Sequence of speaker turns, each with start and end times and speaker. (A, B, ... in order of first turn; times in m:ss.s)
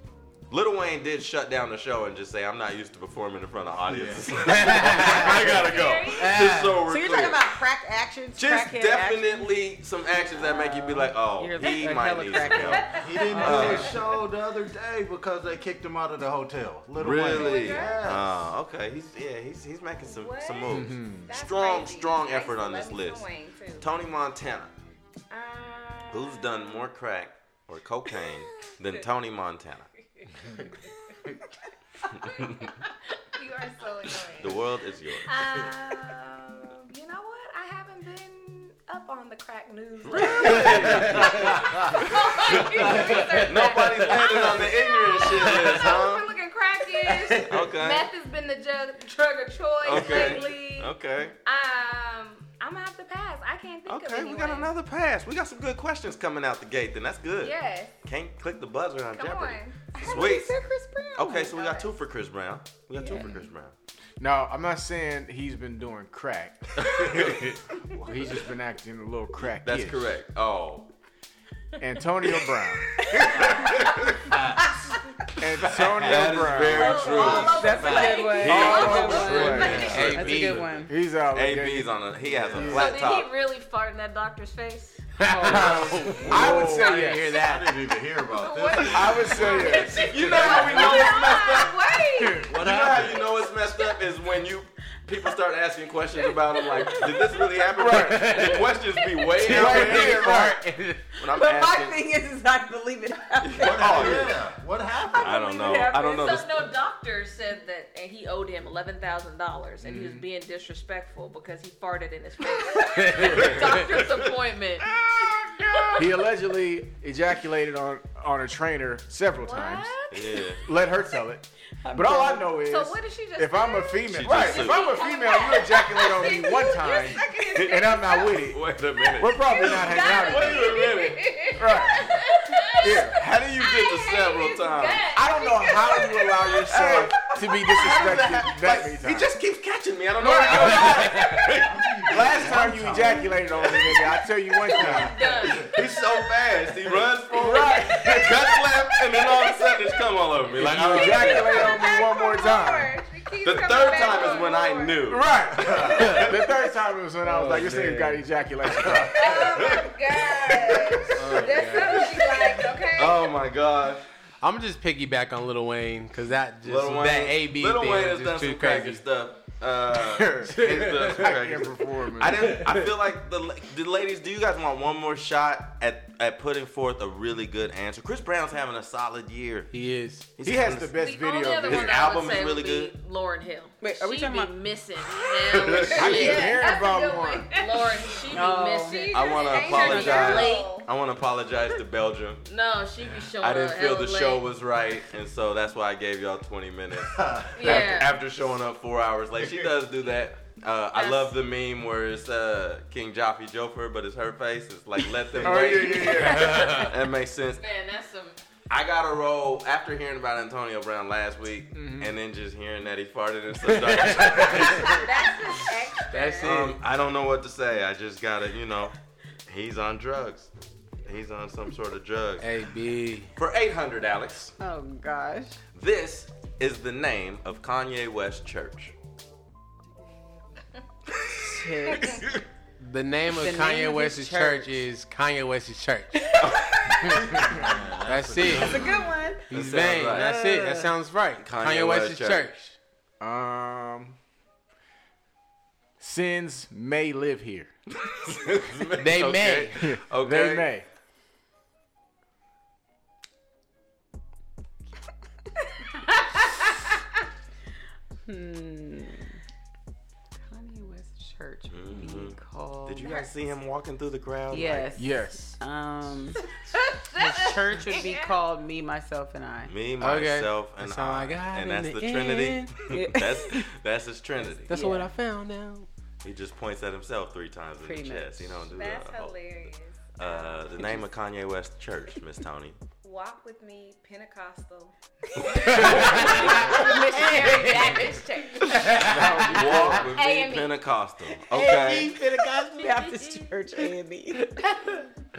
0:00.5-0:07.6 A
0:03.8-0:05.5 B
0:04.4-0:05.6 C
0:05.4-0:06.4 D
0:06.1-0:06.8 C
0:06.8-0:09.6 E
0:08.4-0:14.0 A
0:10.1-0:13.9 E
0:13.0-0:18.6 B
0:17.0-0:23.2 A
0:17.3-0:18.1 D
0:20.0-0:23.9 D
0:20.7-0:21.3 F
0:23.8-0:24.7 A
0:25.3-0:26.8 D
0:26.1-0:29.9 A
0:28.2-0:29.0 D
0:32.2-0:32.7 A
0:32.2-0:32.7 D
0:33.3-0:34.6 D
0:34.4-0:35.4 A
0:35.2-0:54.7 D
0:40.0-0:46.3 A
0:40.8-0:41.3 C
0:41.0-0:41.8 B
0:43.1-0:43.4 C
0:47.4-0:48.1 A
0:49.8-0:51.4 A
0:50.0-0:50.4 E
0:53.9-1:00.5 A
0:57.4-0:57.9 D
0:59.1-1:00.2 D
1:00.0-1:01.6 E
1:01.2-1:03.7 A
1:01.4-1:01.9 D
1:03.0-1:03.4 E
1:04.2-1:10.2 F
1:06.8-1:07.6 A
1:09.4-1:10.9 A
1:11.8-1:13.3 F
1:13.1-1:15.0 B
1:13.2-1:14.3 A
1:15.4-1:17.1 F
1:15.7-1:18.4 B
1:15.8-1:23.3 A
1:16.8-1:20.0 D
1:16.8-1:19.7 G
1:17.2-1:20.9 E
1:18.5-1:19.9 F
1:19.8-1:20.8 C
1:20.9-1:22.0 F
1:22.2-1:22.9 B
1:22.5-1:22.9 F
1:22.6-1:25.1 G
1:25.2-1:27.8 C
1:25.4-1:27.0 A
1:25.5-1:31.1 B
1:25.5-1:27.3 F
1:28.4-1:32.6 D
1:28.9-1:30.6 F
1:29.2-1:31.8 A
1:32.2-1:32.6 F
1:32.5-1:33.4 B
1:32.5-1:40.6 A
1:36.8-1:37.3 E
1:37.8-1:38.5 F
1:37.8-1:38.7 C
1:39.4-1:41.1 C
1:39.4-1:40.6 F
1:41.2-1:42.0 A
1:41.2-1:44.3 E
1:43.4-1:44.4 A
1:43.6-1:45.4 B
1:45.1-1:46.1 E
1:45.1-1:46.8 A
1:45.7-1:54.9 G
1:49.8-1:50.2 F
1:52.9-1:53.8 C
1:53.2-1:54.3 A
1:54.9-1:56.1 A
1:56.0-1:59.9 F
1:59.4-2:00.5 D
2:00.1-2:00.6 A
2:00.6-2:08.6 F
2:01.8-2:02.6 E
2:02.7-2:08.4 D
2:04.1-2:05.0 A
2:07.6-2:11.5 A
2:09.2-2:10.8 F
2:09.4-2:16.9 D
2:11.6-2:12.1 F
2:12.8-2:13.2 F
2:13.1-2:15.1 A
2:15.1-2:19.3 F
2:16.7-2:22.5 A
2:20.2-2:21.1 F
2:20.5-2:21.4 C
2:21.0-2:23.7 B
2:22.1-2:25.3 F
2:23.6-2:23.9 A
2:24.5-2:25.9 G
2:24.8-2:25.7 B
2:25.5-2:31.8 A
2:27.3-2:28.4 F
2:29.2-2:29.8 D
2:30.6-2:33.0 F
2:31.2-2:35.0 D
2:33.4-2:36.5 A
2:35.1-2:39.7 F
2:35.5-2:36.3 B
2:36.0-2:36.3 C
2:37.2-2:41.8 A
2:39.1-2:43.3 D
2:41.1-2:42.3 C
2:43.0-2:44.0 A
2:44.4-2:49.0 C
2:46.6-2:59.7 A
2:49.9-2:52.7 F
2:50.5-2:51.4 C
2:52.5-2:52.9 C
2:59.7-3:00.3 C
3:00.4-3:01.0 A
3:00.4-3:02.2 F
3:01.0-3:06.6 G
3:01.6-3:03.0 A
3:03.8-3:04.6 E
3:05.5-3:06.5 A
3:05.9-3:10.9 D
3:05.9-3:07.6 F
3:07.5-3:10.7 G
3:08.3-3:09.1 E
3:09.1-3:12.5 A
3:09.8-3:10.4 E
3:12.4-3:14.5 G
3:13.4-3:27.6 A
3:17.0-3:17.9 B
3:17.6-3:18.2 G
3:19.4-3:19.7 B
3:20.9-3:21.4 G
3:25.4-3:26.7 F
3:26.1-3:26.9 C
3:27.6-3:28.4 G
3:28.7-3:35.0 A
3:31.7-3:32.1 F
3:33.6-3:35.0 C
3:34.6-3:36.5 D
3:36.1-3:36.8 C
3:36.4-3:39.0 A
3:39.5-3:40.5 A
3:41.0-3:42.6 A
3:42.4-3:43.3 C
3:43.4-3:44.5 A
3:44.6-3:45.6 E
3:45.8-3:49.0 A
3:51.4-3:52.2 E
3:52.8-3:56.4 C
3:53.3-3:54.8 E
3:56.4-3:57.2 A
3:57.0-3:59.0 B
3:58.0-3:58.8 C
3:58.5-4:00.9 E
3:59.5-4:02.8 C
3:59.5-4:00.3 A
4:01.4-4:02.5 A
4:03.2-4:04.2 F
4:06.0-4:07.7 F
4:08.0-4:10.7 A
4:09.0-4:09.9 C
4:09.8-4:10.9 F
4:18.3-4:19.4 E
4:20.4-4:23.3 E
4:21.7-4:25.0 A
4:24.5-4:26.4 E
4:25.0-4:25.6 F
4:26.7-4:28.4 D
4:27.2-4:29.7 E
4:29.7-4:34.7 A
4:30.0-4:32.9 C
4:32.8-4:33.7 E
4:34.7-4:35.9 C
4:34.7-4:35.1 E
4:36.2-4:39.4 A
4:37.8-4:38.6 E
4:38.7-4:41.0 D
4:40.2-4:42.8 A
4:43.0-4:49.0 D
4:45.7-4:46.8 A
4:45.7-4:46.1 E
4:45.8-4:46.5 C
4:46.6-4:48.0 E
4:48.7-4:49.8 C
4:48.8-4:52.2 A
4:49.0-4:50.0 F
4:49.9-4:50.8 D
4:51.5-4:54.5 E
4:52.7-4:53.5 G